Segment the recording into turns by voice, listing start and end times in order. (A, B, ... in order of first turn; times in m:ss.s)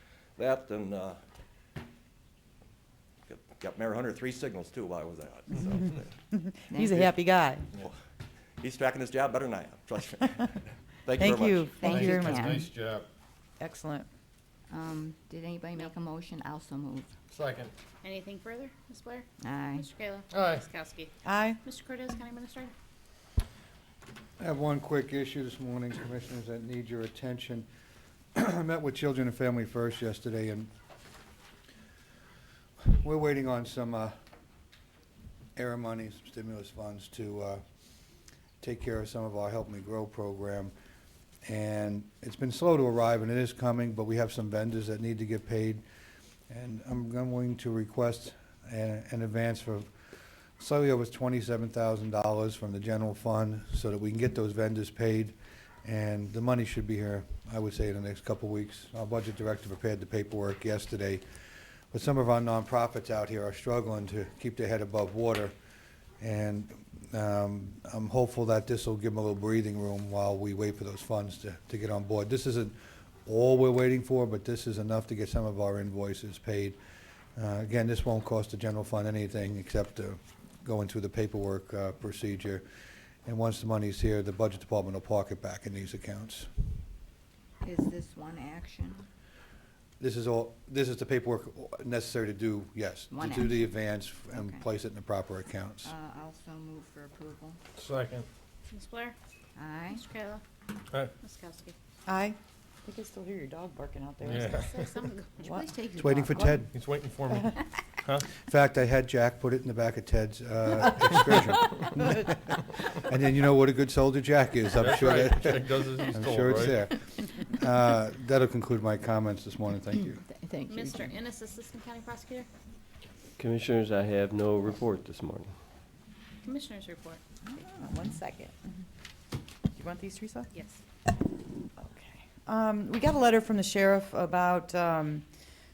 0:00.4-0:01.2 A
0:03.3-0:06.1 A
0:06.3-0:07.7 B
0:08.6-0:11.8 A
0:11.2-0:12.4 B
0:11.8-0:12.7 C
0:11.9-0:13.1 D
0:13.6-0:14.1 B
0:14.7-0:17.1 C
0:17.3-0:17.7 D
0:18.0-0:21.1 E
0:19.4-0:19.8 C
0:20.3-0:20.6 D
0:21.2-0:21.6 B
0:21.6-0:22.7 E
0:24.4-0:27.7 F
0:28.3-0:30.7 F
0:32.8-0:34.1 F
0:35.6-0:37.6 F
0:38.6-0:40.7 F
0:41.4-0:45.8 F
0:46.5-0:49.9 F
0:50.6-1:01.2 F
1:01.9-1:05.5 F
1:06.2-1:16.8 F
1:17.4-1:22.6 F
1:23.2-1:26.5 F
1:27.6-1:29.0 C
1:30.0-1:35.9 F
1:33.1-1:33.6 C
1:34.3-1:34.6 C
1:35.8-1:37.6 C
1:37.8-1:38.3 D
1:38.7-1:39.2 E
1:39.6-1:40.0 C
1:39.9-1:40.4 E
1:41.2-1:41.7 E
1:42.1-1:44.7 B
1:44.2-1:45.1 D
1:44.7-1:45.4 E
1:45.4-1:46.7 C
1:46.0-1:46.7 F
1:46.7-1:48.3 D
1:48.3-2:00.2 F
1:54.7-1:56.8 D
2:00.2-2:01.2 C
2:00.7-2:02.5 E
2:03.4-2:05.5 G
2:06.4-2:07.2 E
2:07.6-2:08.0 C
2:07.6-2:08.5 B
2:09.7-2:10.5 B
2:10.5-2:10.8 E
2:11.8-2:15.2 B